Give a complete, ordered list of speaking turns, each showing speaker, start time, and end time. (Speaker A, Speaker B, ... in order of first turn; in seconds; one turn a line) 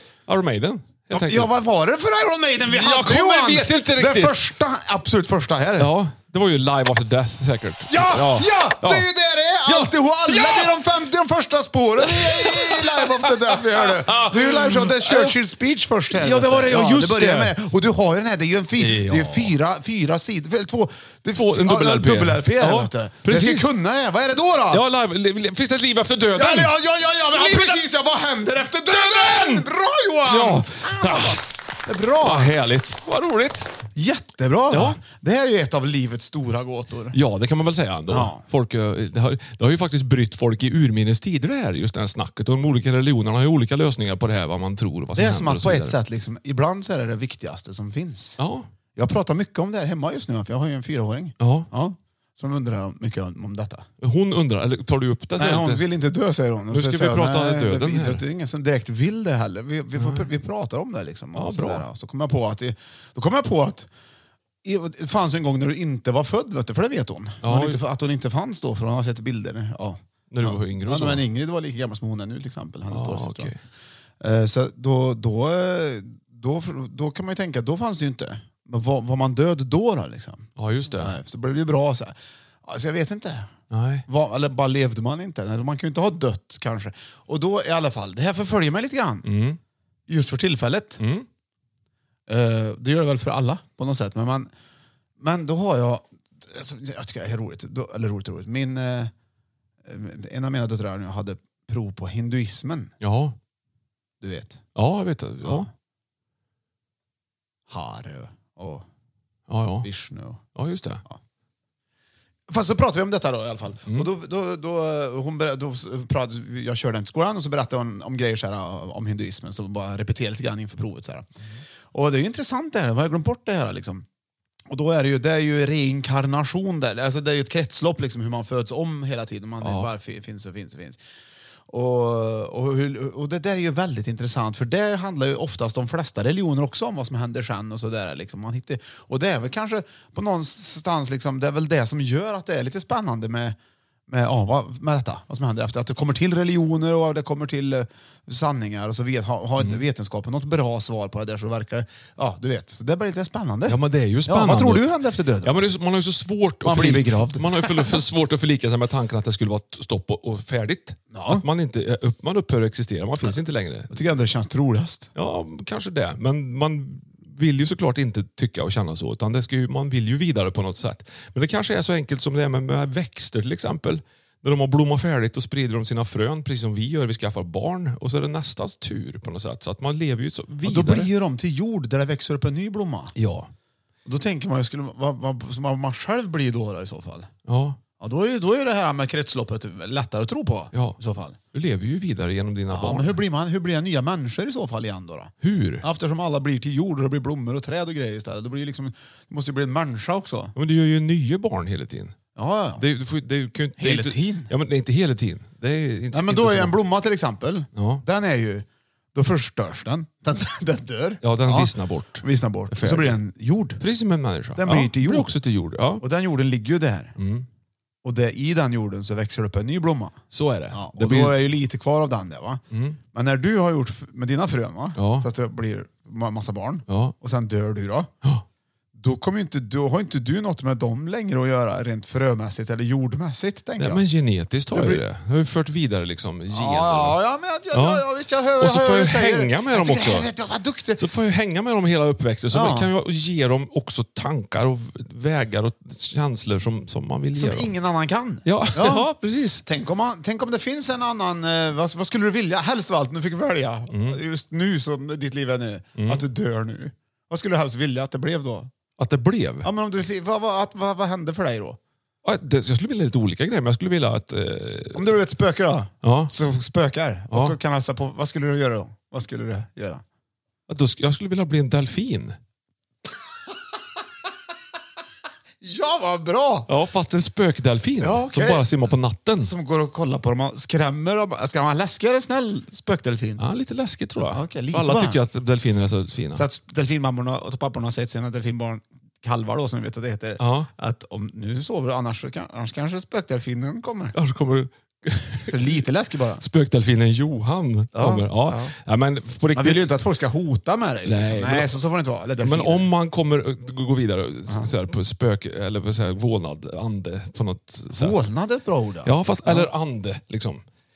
Speaker A: 0.3-1.5
Speaker B: 1.1-5.9
Speaker A: 2.7-4.4
Speaker A: 5.8-9.1
Speaker B: 7.9-24.8
Speaker A: 9.7-10.8
Speaker A: 12.0-15.4
Speaker A: 16.1-17.5
Speaker A: 18.8-19.5
Speaker A: 21.3-23.7
Speaker A: 24.7-26.7
Speaker B: 26.3-32.5
Speaker A: 27.3-27.8
Speaker A: 28.9-29.7
Speaker A: 30.2-31.4
Speaker A: 32.2-33.7
Speaker B: 33.9-37.2
Speaker A: 34.7-35.0
Speaker A: 37.1-46.0
Speaker B: 38.1-38.4
Speaker B: 45.1-48.4
Speaker A: 48.4-48.7
Speaker B: 49.0-53.9
Speaker A: 51.4-51.7
Speaker A: 54.0-55.8
Speaker B: 55.4-63.9
Speaker A: 56.7-58.2
Speaker A: 60.0-60.3
Speaker A: 61.3-61.8
Speaker B: 64.6-73.5
Speaker A: 67.4-67.8
Speaker A: 70.3-71.2
Speaker A: 72.9-73.6
Speaker B: 74.2-83.5
Speaker A: 80.6-81.2
Speaker A: 83.7-84.0
Speaker B: 84.1-89.3
Speaker A: 89.2-89.6
Speaker B: 90.1-91.0
Speaker A: 91.0-91.3
Speaker B: 92.3-94.5
Speaker B: 95.2-99.1
Speaker B: 99.8-102.9
Speaker A: 103.0-103.3
Speaker B: 104.2-104.6
Speaker A: 104.7-105.7
Speaker B: 105.4-105.7
Speaker B: 107.7-108.8
Speaker A: 109.5-109.9
Speaker B: 109.8-110.4
Speaker A: 110.5-111.0
Speaker B: 112.5-121.3
Speaker B: 121.9-124.0
Speaker B: 124.7-131.0
Speaker A: 129.6-129.9
Speaker B: 131.7-143.6
Speaker B: 144.1-155.5
Speaker A: 153.7-163.9
Speaker B: 156.6-158.0
Speaker B: 161.1-161.4
Speaker B: 163.9-165.1
Speaker A: 165.2-181.1
Speaker B: 180.6-183.1
Speaker A: 183.2-183.5
Speaker B: 184.0-187.3
Speaker A: 187.4-187.8
Speaker B: 188.0-191.4
Speaker A: 190.7-191.0
Speaker A: 191.5-193.2
Speaker B: 192.7-200.5
Speaker A: 195.4-195.8
Speaker A: 200.6-202.2
Speaker B: 202.3-202.8
Speaker A: 202.8-206.8
Speaker B: 203.8-204.5
Speaker B: 206.1-213.8
Speaker A: 207.8-208.0
Speaker A: 211.2-213.2
Speaker A: 213.8-216.0
Speaker B: 214.5-215.3
Speaker B: 216.0-217.1
Speaker A: 217.2-217.4
Speaker B: 218.0-220.2
Speaker A: 220.3-221.4
Speaker B: 220.7-222.6
Speaker A: 222.7-223.0
Speaker B: 223.1-228.1
Speaker A: 225.0-225.3
Speaker A: 226.9-227.1
Speaker B: 229.0-234.0
Speaker A: 233.8-237.2
Speaker B: 234.7-235.0
Speaker B: 236.5-241.1
Speaker A: 237.7-238.1
Speaker A: 238.6-240.3
Speaker A: 241.0-247.7
Speaker B: 242.5-242.9
Speaker B: 247.3-249.1
Speaker A: 248.4-249.6
Speaker B: 249.6-258.7
Speaker A: 253.9-254.2
Speaker A: 256.0-256.2
Speaker A: 259.0-259.7
Speaker B: 259.6-261.8
Speaker A: 262.2-265.0
Speaker B: 264.9-270.0
Speaker A: 266.0-266.3
Speaker A: 267.3-267.6
Speaker A: 270.7-272.4
Speaker B: 275.6-276.7
Speaker A: 276.7-279.5
Speaker B: 278.0-283.4
Speaker A: 283.4-286.4
Speaker B: 284.2-285.2
Speaker B: 286.3-294.1
Speaker A: 290.4-290.7
Speaker A: 294.1-295.8
Speaker B: 295.4-296.4
Speaker A: 296.4-299.9
Speaker B: 297.9-298.7
Speaker B: 299.5-302.9
Speaker A: 301.0-301.8
Speaker A: 302.4-308.2
Speaker B: 307.9-309.7
Speaker A: 309.0-310.6